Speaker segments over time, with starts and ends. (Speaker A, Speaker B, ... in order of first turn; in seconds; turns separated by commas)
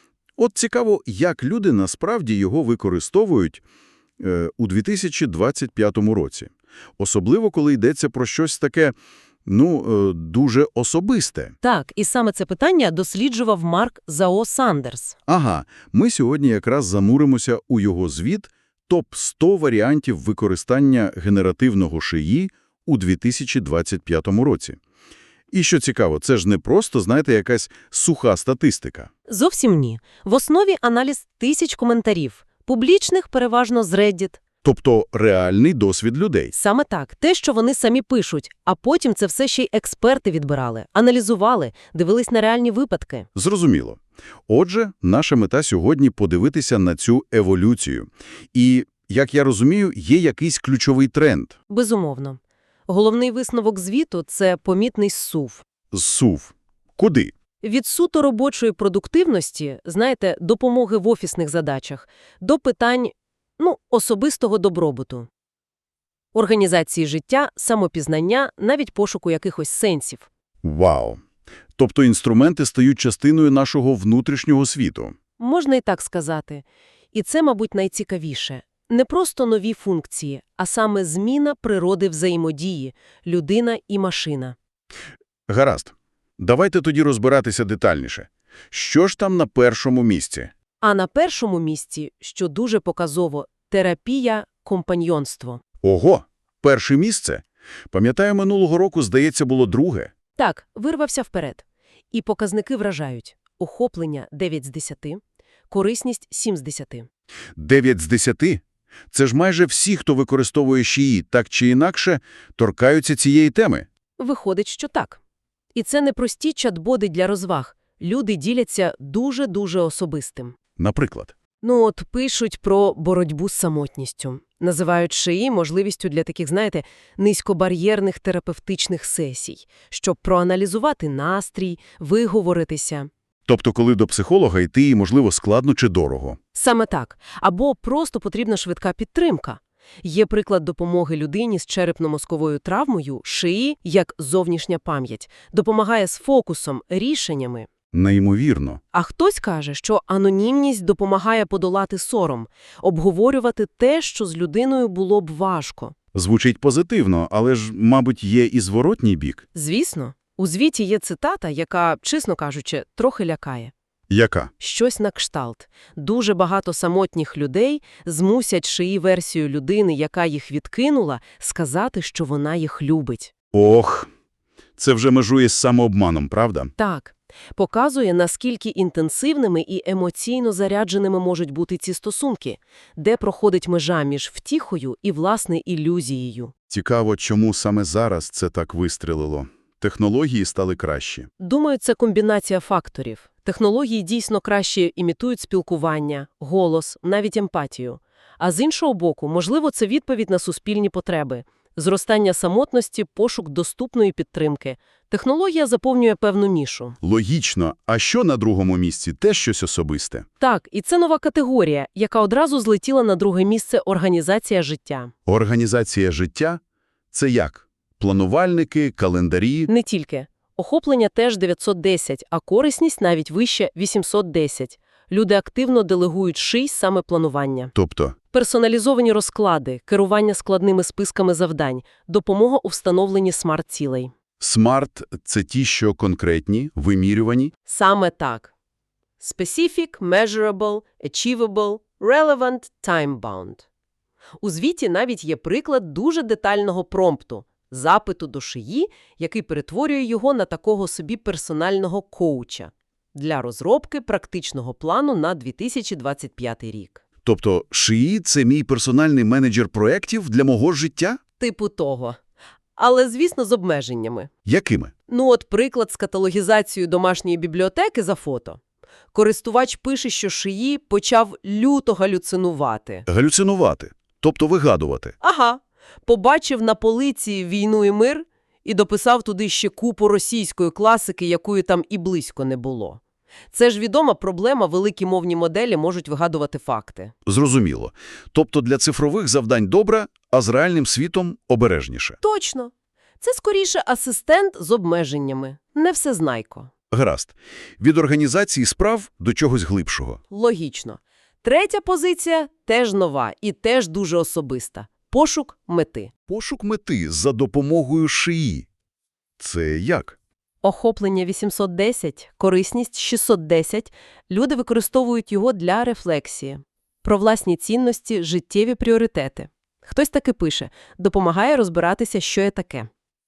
Speaker A: 0.4-3.6, Speaker A: 4.2-8.9, Speaker A: 9.4-11.5, Speaker B: 11.6-15.2, Speaker A: 15.3-24.8, Speaker A: 25.5-29.1, Speaker B: 29.3-34.4, Speaker A: 34.6-36.5, Speaker B: 36.5-43.3, Speaker A: 43.3-51.5, Speaker B: 51.7-55.6, Speaker A: 55.9-57.3, Speaker B: 57.6-65.3, Speaker B: 66.3-70.3, Speaker A: 70.6-71.2, Speaker A: 71.8-75.2, Speaker B: 75.4-84.5, Speaker A: 85.5-90.5, Speaker B: 90.8-95.6, Speaker A: 95.8-100.1, Speaker B: 100.3-107.1, Speaker A: 107.5-113.9, Speaker B: 114.2-115.2, Speaker B: 115.7-120.6, Speaker A: 120.8-121.3, Speaker B: 121.6-133.1, Speaker A: 133.5-136.4, Speaker B: 136.5-147.7, Speaker A: 147.9-148.8, Speaker B: 148.9-155.9, Speaker A: 156.1-159.4, Speaker B: 159.5-163.7, Speaker A: 164.1-164.5, Speaker B: 164.6-173.3, Speaker A: 173.5-174.1, Speaker A: 174.8-176.7, Speaker B: 176.8-186.5, Speaker A: 186.7-191.3, Speaker B: 191.4-207.0, Speaker A: 207.0-210.2, Speaker B: 210.4-215.1, Speaker A: 215.2-216.6, Speaker A: 217.1-219.7, Speaker B: 219.7-227.7, Speaker A: 227.7-228.1, Speaker B: 228.3-234.1, Speaker A: 234.4-237.5, Speaker B: 237.7-238.5, Speaker B: 239.2-243.7, Speaker B: 244.4-257.0, Speaker A: 257.2-261.2, Speaker B: 261.4-262.2, Speaker B: 262.8-264.3, Speaker A: 264.4-264.9, Speaker B: 265.1-268.6, Speaker B: 269.1-273.1, Speaker A: 273.1-275.1, Speaker B: 275.2-283.0, Speaker B: 283.5-287.1, Speaker A: 287.2-292.2, Speaker B: 292.2-296.7, Speaker A: 296.9-300.2, Speaker B: 300.3-306.1, Speaker A: 306.3-308.7, Speaker A: 309.4-310.2, Speaker B: 310.6-322.9